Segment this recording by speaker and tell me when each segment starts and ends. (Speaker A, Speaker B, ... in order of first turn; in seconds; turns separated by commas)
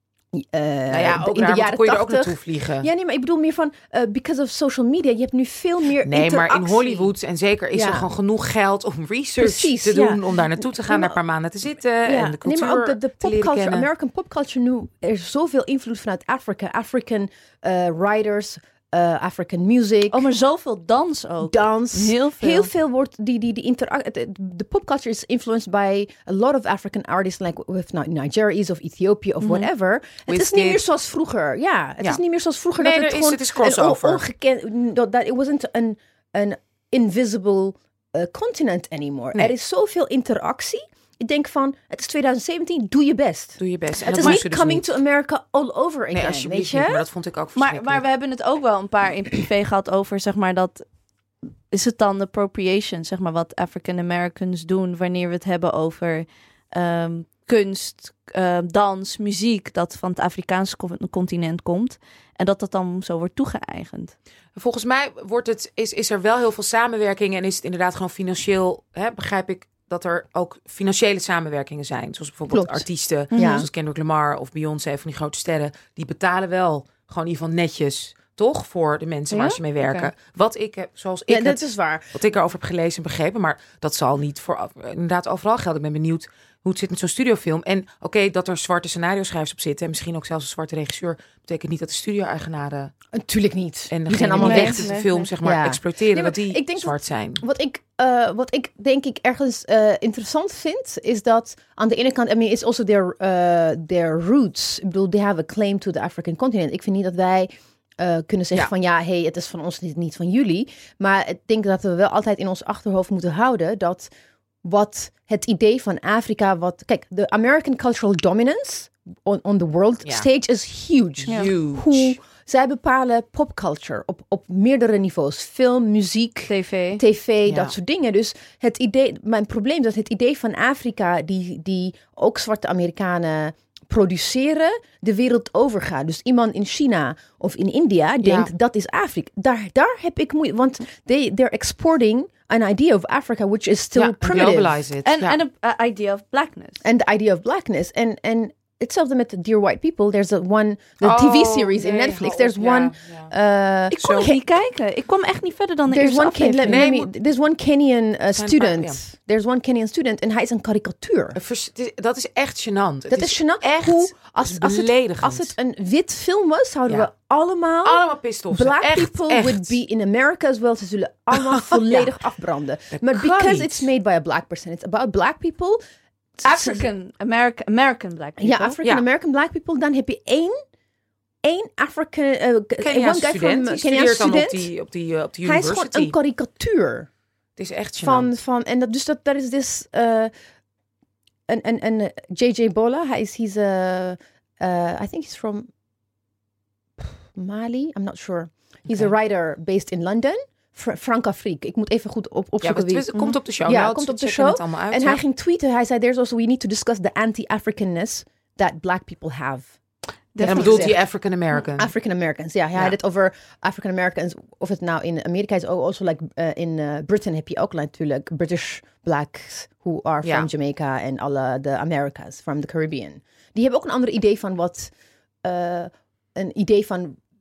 Speaker A: 0.3-7.1, Speaker B: 0.9-2.9, Speaker B: 6.0-13.9, Speaker A: 7.7-8.1, Speaker A: 9.4-11.2, Speaker A: 12.1-20.2, Speaker C: 20.1-22.7, Speaker A: 21.4-47.0, Speaker C: 29.4-29.7, Speaker B: 30.3-30.8, Speaker B: 32.8-34.2, Speaker B: 43.6-45.0, Speaker C: 44.1-44.4, Speaker B: 46.1-48.0, Speaker C: 47.6-50.9, Speaker C: 51.7-64.1, Speaker B: 64.6-92.9, Speaker A: 72.5-73.7, Speaker C: 73.3-73.7, Speaker C: 79.3-80.1, Speaker A: 81.3-82.1, Speaker A: 93.1-94.9, Speaker B: 93.9-97.4, Speaker C: 94.4-95.3, Speaker A: 95.4-114.1, Speaker A: 114.6-144.8, Speaker B: 121.2-122.2, Speaker C: 121.3-121.5, Speaker C: 126.5-127.0, Speaker B: 127.5-127.7, Speaker B: 138.2-138.5, Speaker B: 143.9-145.4, Speaker C: 145.0-146.8, Speaker A: 146.8-154.4, Speaker B: 151.0-153.3, Speaker B: 153.9-154.3, Speaker C: 153.9-156.8, Speaker A: 155.9-161.4, Speaker B: 156.6-157.1, Speaker B: 158.3-159.0, Speaker B: 161.3-165.5, Speaker A: 163.1-175.8, Speaker B: 167.8-169.7, Speaker B: 171.3-172.1, Speaker B: 172.9-173.9, Speaker A: 176.4-176.8, Speaker C: 176.4-178.8, Speaker A: 178.4-180.6, Speaker A: 181.4-184.7, Speaker B: 182.8-186.1, Speaker A: 185.4-187.1, Speaker B: 187.6-188.3, Speaker A: 188.0-190.3, Speaker A: 191.5-195.7, Speaker A: 197.0-209.7, Speaker B: 202.6-205.2, Speaker C: 210.3-210.9, Speaker A: 210.4-211.0, Speaker B: 210.4-211.9, Speaker A: 211.6-224.9, Speaker B: 220.2-220.5, Speaker A: 225.4-227.2